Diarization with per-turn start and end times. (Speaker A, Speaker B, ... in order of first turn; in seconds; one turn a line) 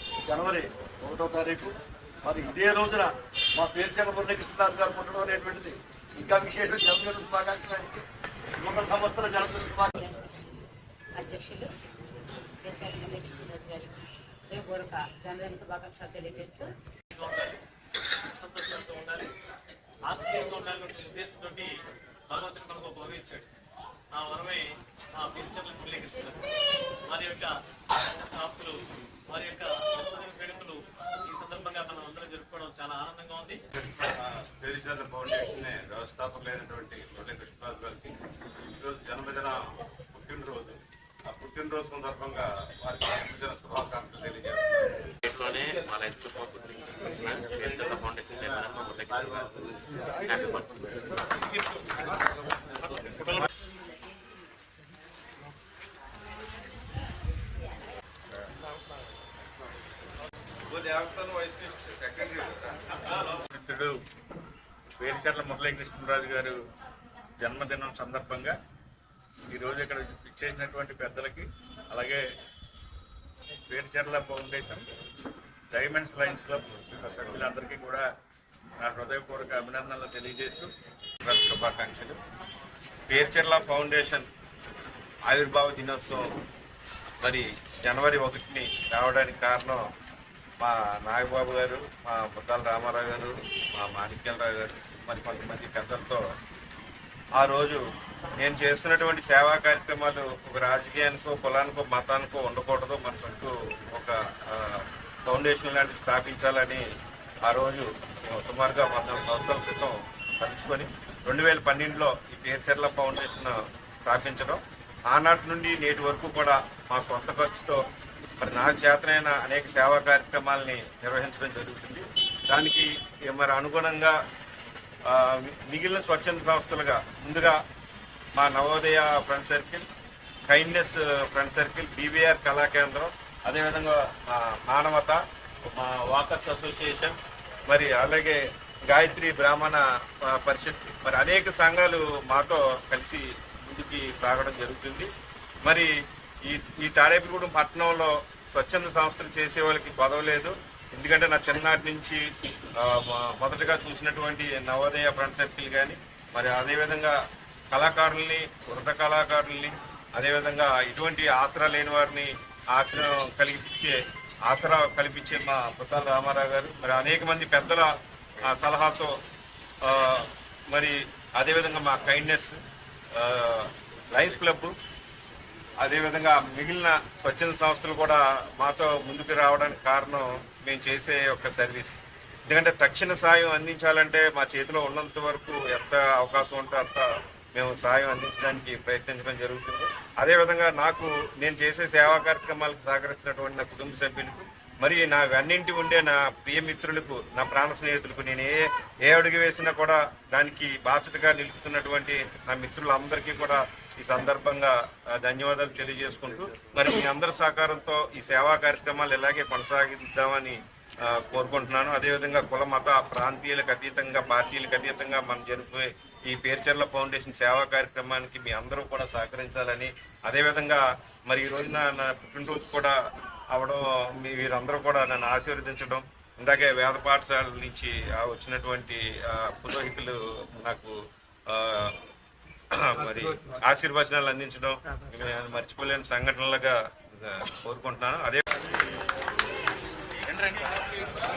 Speaker A: 0.2-8.0
Speaker A: 8.6-10.0
Speaker B: 10.0-10.3
Speaker B: 11.2-11.7
Speaker B: 12.6-16.7
Speaker C: 17.1-17.6
Speaker C: 18.2-19.3
Speaker C: 20.0-23.5
Speaker C: 24.1-26.5
Speaker C: 27.1-33.6
Speaker D: 34.0-38.1
Speaker D: 38.8-39.6
Speaker D: 40.1-44.9
Speaker E: 45.3-51.4
Speaker C: 51.6-51.8
Speaker D: 60.7-63.4
Speaker F: 63.5-63.9
Speaker F: 65.0-66.6
Speaker F: 67.4-68.6
Speaker F: 69.5-72.2
Speaker F: 73.7-74.8
Speaker F: 75.7-78.1
Speaker F: 78.8-80.7
Speaker D: 81.2-82.2
Speaker D: 83.1-84.3
Speaker D: 85.3-86.2
Speaker D: 87.2-89.8
Speaker D: 90.6-96.2
Speaker D: 97.4-97.8
Speaker D: 98.4-106.8
Speaker D: 107.5-117.8
Speaker D: 118.4-124.2
Speaker D: 125.1-127.6
Speaker D: 128.4-129.8
Speaker D: 130.5-135.2
Speaker D: 135.7-137.2
Speaker D: 137.7-138.4
Speaker D: 138.9-145.1
Speaker D: 146.4-152.2
Speaker D: 152.8-157.1
Speaker D: 157.7-163.9
Speaker D: 164.5-167.9
Speaker D: 168.4-169.1
Speaker D: 169.8-172.6
Speaker D: 173.2-174.7
Speaker D: 175.8-182.0
Speaker D: 182.5-222.9
Speaker D: 223.5-230.9
Speaker D: 231.5-231.9
Speaker D: 232.7-238.4
Speaker F: 240.3-240.7